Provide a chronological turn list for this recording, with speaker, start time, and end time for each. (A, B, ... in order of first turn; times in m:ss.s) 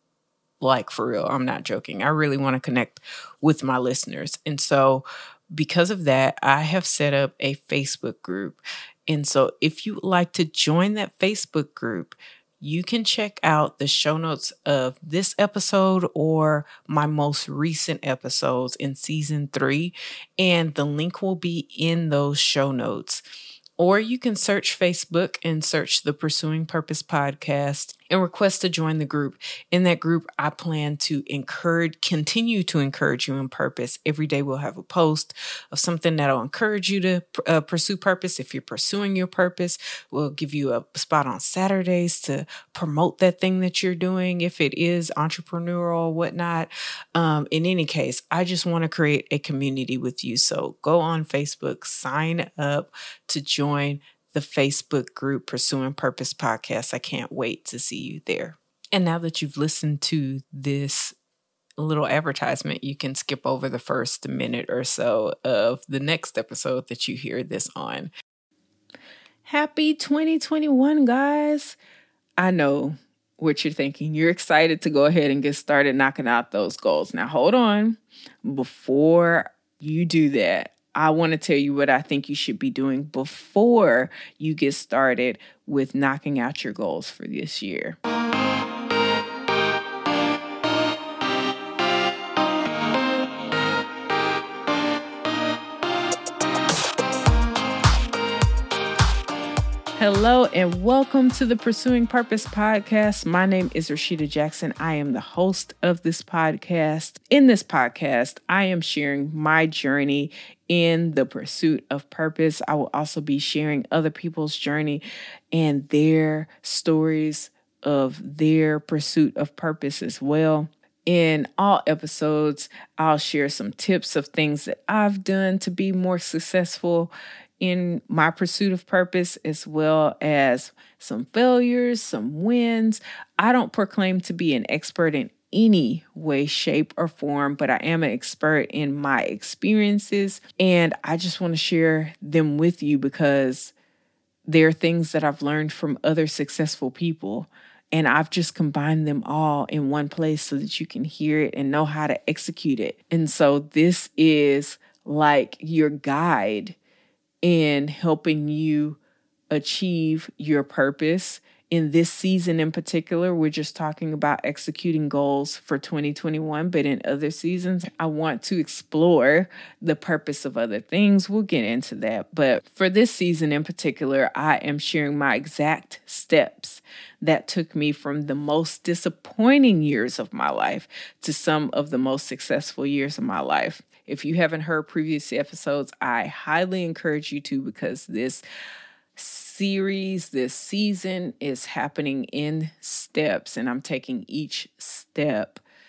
0:00.6-0:23.2 A
0:23.8-1:01.2 A
1:01.8-1:08.1 A
1:09.4-1:11.8 A
1:12.4-1:28.0 A
1:40.0-2:23.7 A
2:24.4-2:36.8 A
2:37.4-2:39.0 A
2:39.5-3:08.4 A
3:09.2-3:15.6 A